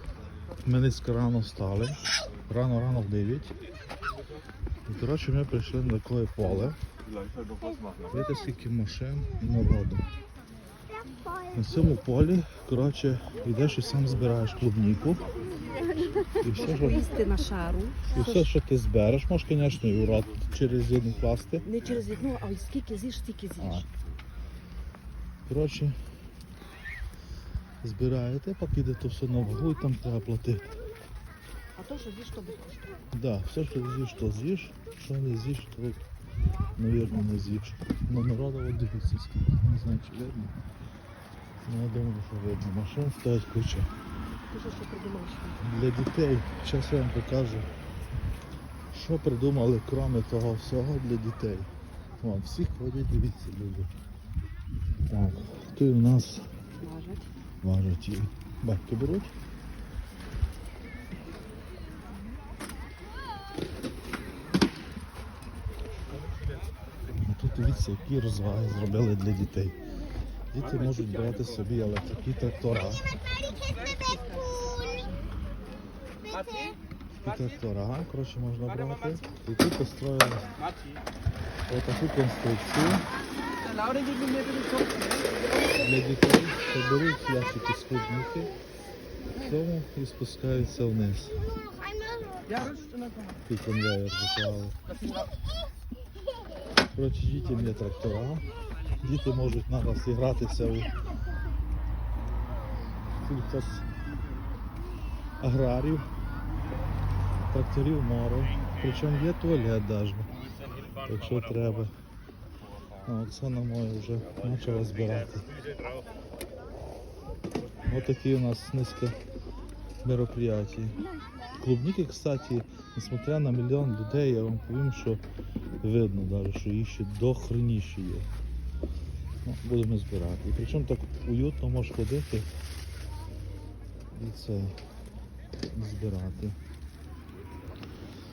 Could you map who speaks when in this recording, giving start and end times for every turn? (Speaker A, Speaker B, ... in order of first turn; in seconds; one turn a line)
Speaker A: 0.6-3.5
Speaker A: 4.9-6.8
Speaker A: 8.1-10.1
Speaker A: 11.5-15.2
Speaker B: 16.3-18.5
Speaker A: 16.4-17.1
Speaker A: 18.1-21.7
Speaker B: 21.6-23.9
Speaker A: 23.6-23.9
Speaker A: 25.5-26.0
Speaker A: 27.8-30.7
Speaker B: 31.8-32.9
Speaker A: 33.1-36.0
Speaker A: 36.8-40.6
Speaker A: 41.7-43.9
Speaker B: 44.5-45.6
Speaker A: 45.6-47.7
Speaker A: 48.9-53.9
Speaker A: 55.1-56.5
Speaker B: 56.8-57.3
Speaker A: 57.6-59.3
Speaker A: 67.2-69.8
Speaker A: 70.5-73.0
Speaker B: 73.6-75.3
Speaker A: 77.2-80.6
Speaker A: 81.7-83.1
Speaker B: 84.0-85.3
Speaker A: 85.7-88.5
Speaker A: 89.3-91.4
Speaker B: 92.5-93.0
Speaker A: 93.5-94.8
Speaker A: 97.0-98.5
Speaker A: 99.0-100.9
Speaker A: 103.2-103.8
Speaker A: 105.4-106.1
Speaker A: 107.5-110.3
Speaker A: 111.0-111.9
Speaker A: 113.0-115.5
Speaker A: 117.9-119.2
Speaker A: 120.0-121.0
Speaker A: 121.6-125.2
Speaker A: 125.8-128.3
Speaker A: 129.4-132.5
Speaker A: 134.1-134.8
Speaker A: 135.7-136.6